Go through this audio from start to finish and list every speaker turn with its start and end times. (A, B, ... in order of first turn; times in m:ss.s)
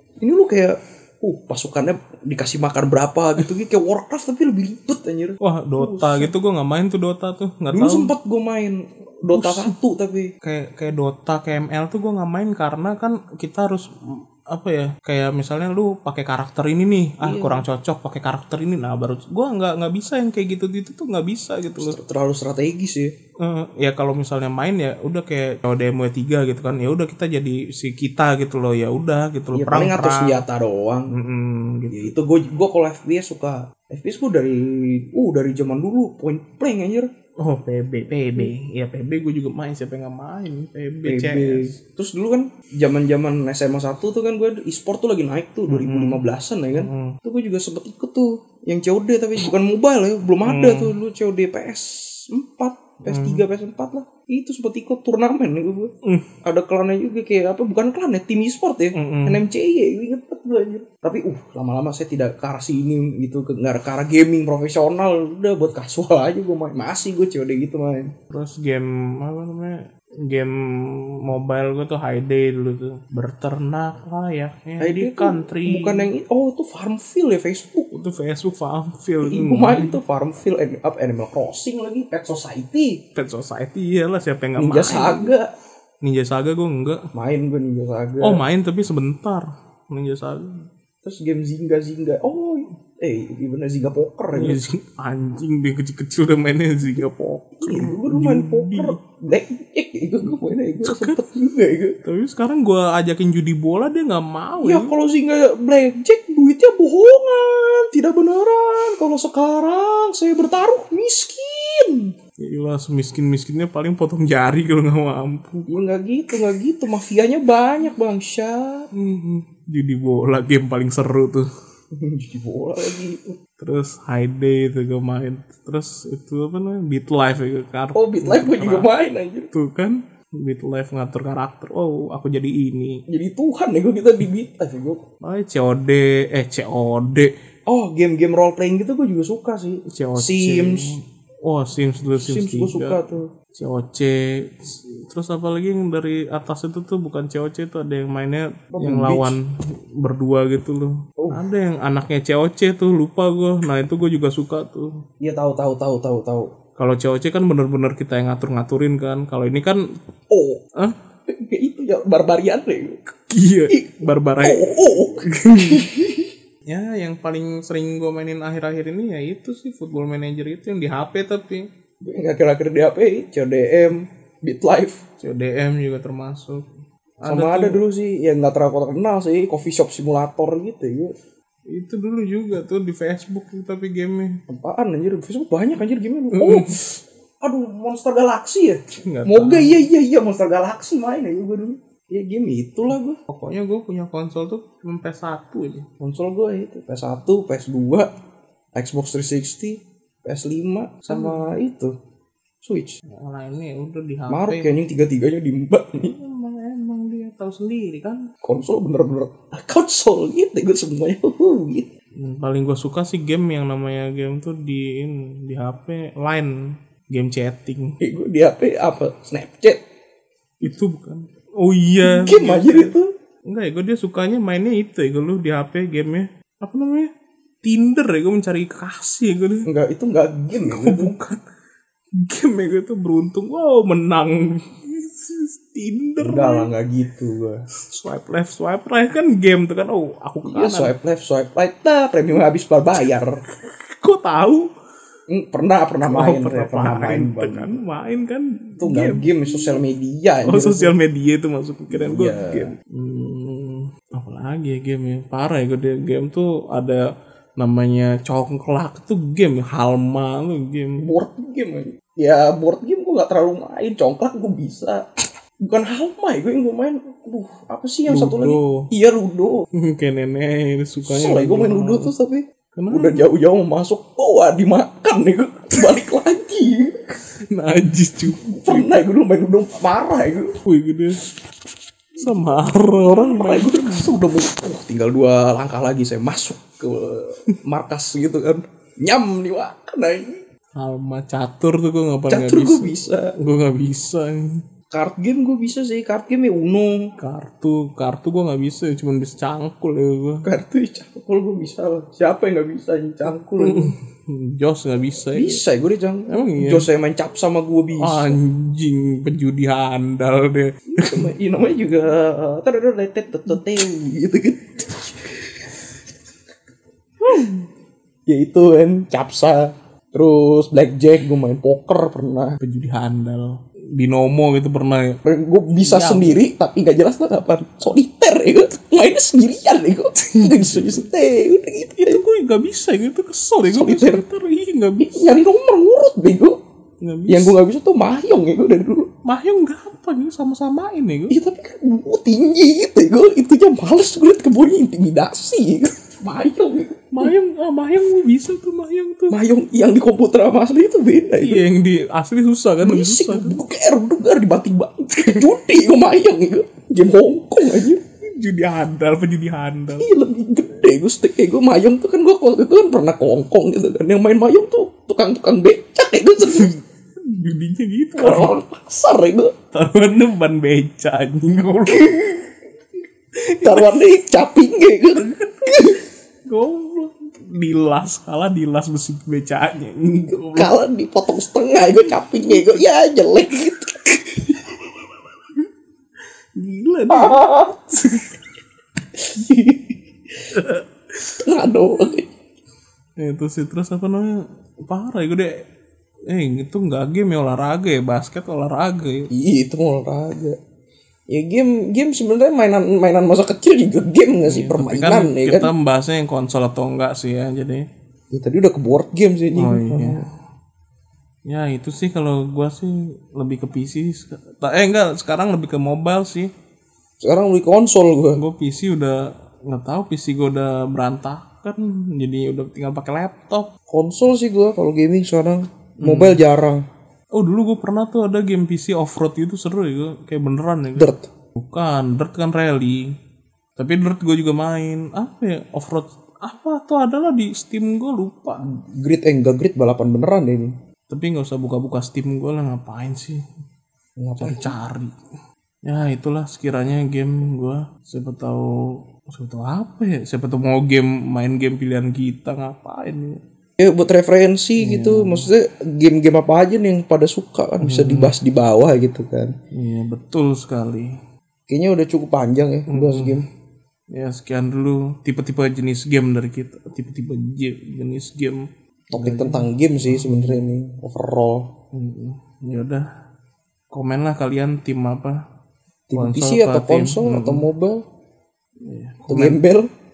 0:00.2-0:06.3 A
0:05.4-0:08.2 B
0:07.7-0:10.3 A
0:09.3-0:09.7 B
0:10.4-0:13.9 B
0:14.5-0:22.0 B
0:17.2-0:17.6 A
0:21.8-0:23.1 A
0:23.4-0:30.4 B
0:29.5-0:31.1 A
0:31.1-0:32.1 B
0:31.9-0:37.1 A
0:37.4-0:41.8 B
0:41.0-0:55.9 A
0:45.7-0:47.2 B
0:50.4-0:51.0 B
0:53.1-0:53.4 B
0:56.0-0:56.3 B
0:56.4-1:08.1 A
0:59.0-0:59.5 B
1:08.3-1:16.1 B
1:14.8-1:17.9 A
1:17.9-1:20.0 B
1:19.2-1:23.0 A
1:23.2-1:25.3 B
1:24.6-1:25.5 A
1:26.0-1:27.0 B
1:27.1-1:28.4 A
1:28.2-1:30.6 B
1:31.0-1:34.6 A
1:34.3-1:39.0 B
1:36.9-1:42.0 A
1:40.8-1:41.2 B
1:42.0-1:45.0 B
1:44.6-1:52.1 A
1:52.4-1:55.8 B
1:55.7-1:58.9 A
1:58.9-2:01.4 B
2:02.0-2:03.4 A
2:03.6-2:08.9 B
2:07.9-2:09.5 A
2:09.5-2:13.0 B
2:13.1-2:15.0 A
2:15.2-2:17.3 B
2:17.7-2:20.9 A
2:19.9-2:23.0 B
2:22.2-2:23.3 A
2:23.5-2:29.5 B
2:28.7-2:29.4 A
2:30.0-2:34.9 B
2:35.2-2:36.5 A
2:36.8-2:39.8 B
2:40.3-2:40.6 A
2:41.3-2:43.0 A
2:43.1-2:44.6 B
2:43.7-2:46.3 A
2:45.3-2:45.9 B
2:46.7-2:51.7 B
2:52.0-2:55.0 A
2:55.2-2:56.7 B
2:57.2-2:57.8 B
2:57.2-3:01.1 A
3:01.7-3:04.4 B
3:04.5-3:13.2 A
3:06.3-3:06.8 B
3:09.0-3:09.9 B
3:13.3-3:15.9 B
3:16.0-3:18.1 A
3:18.8-3:21.9 A
3:21.1-3:21.6 B
3:22.6-3:23.0 A
3:23.2-3:24.8 B
3:24.3-3:26.1 A
3:26.0-3:28.2 B
3:28.4-3:31.9 A
3:32.2-3:36.5 B
3:37.1-3:38.0 B
3:38.0-3:39.8 A
3:40.6-3:42.9 B
3:42.0-3:43.1 A
3:43.5-3:47.1 B
3:47.6-3:49.7 B
3:49.7-3:51.1 A
3:50.6-3:51.4 B
3:52.2-3:56.7 B
3:56.2-3:57.6 A
3:57.9-4:00.9 B
4:00.5-4:03.4 A
4:03.0-4:04.7 B
4:05.3-4:07.8 A
4:06.0-4:09.8 B
4:08.8-4:10.9 A
4:10.4-4:17.0 B
4:11.9-4:12.7 A
4:17.6-4:21.0 B
4:21.0-4:25.0 A
4:25.6-4:29.6 A
4:28.1-4:28.9 B
4:29.8-4:32.1 B
4:31.0-4:37.1 A
4:32.8-4:33.2 B
4:37.5-4:39.0 B
4:38.3-4:40.5 A
4:40.6-4:41.2 B
4:42.2-4:50.4 A
4:42.2-4:44.0 B
4:50.8-4:54.4 B
4:52.3-4:53.3 A
4:54.9-4:57.1 A
4:57.2-5:00.5 B
5:00.4-5:03.9 A
5:03.3-5:05.6 B
5:05.3-5:08.4 A
5:06.3-5:06.9 B
5:08.0-5:11.3 B
5:10.9-5:15.8 A
5:17.2-5:17.6 A
5:18.3-5:22.6 A
5:22.6-5:25.2 B
5:25.2-5:32.2 A
5:25.8-5:26.5 B
5:30.2-5:31.1 B
5:32.0-5:35.3 B
5:33.6-5:34.2 A
5:35.0-5:36.6 A
5:37.0-5:37.6 B
5:37.3-5:39.1 A
5:39.2-5:41.4 B
5:41.3-5:47.3 A
5:47.1-5:49.4 B
5:49.3-5:51.7 A
5:51.4-5:53.6 B
5:52.8-5:58.0 A
5:55.2-5:55.5 B
5:58.3-6:00.1 B
6:00.0-6:06.7 A
6:06.4-6:08.6 B
6:08.2-6:09.5 A
6:09.7-6:12.2 B
6:11.9-6:12.5 A
6:13.5-6:14.0 B
6:13.6-6:16.0 A
6:15.2-6:16.0 B
6:16.5-6:20.7 B
6:20.3-6:24.5 A
6:22.0-6:22.9 B
6:26.6-6:27.5 B
6:27.1-6:27.9 A
6:29.2-6:30.0 A
6:30.5-6:31.4 B
6:31.4-6:32.3 A
6:33.2-6:35.6 B
6:36.3-6:39.3 B
6:39.3-6:40.6 A
6:41.3-6:45.7 A
6:44.4-6:47.9 B
6:48.3-6:50.2 A
6:49.6-6:50.2 B
6:51.5-6:56.5 B
6:57.2-6:58.4 A
6:58.4-7:03.7 B
7:03.9-7:06.8 A
7:06.0-7:06.4 B
7:07.3-7:13.1 B
7:11.0-7:11.3 A
7:13.8-7:18.6 B
7:18.6-7:20.7 A
7:21.1-7:23.4 B
7:24.2-7:24.8 A
7:24.4-7:25.1 B
7:25.8-7:33.4 B
7:33.8-7:39.5 A
7:34.8-7:35.5 B
7:37.8-7:38.4 B
7:39.7-7:41.2 B
7:41.7-7:43.5 A
7:42.9-7:43.4 B
7:44.1-7:50.7 B
7:49.1-7:51.7 A
7:51.9-7:53.1 B
7:53.9-7:55.4 B
7:56.1-7:58.0 A
7:56.1-7:57.7 B
7:58.8-7:59.6 B
7:59.3-7:59.9 A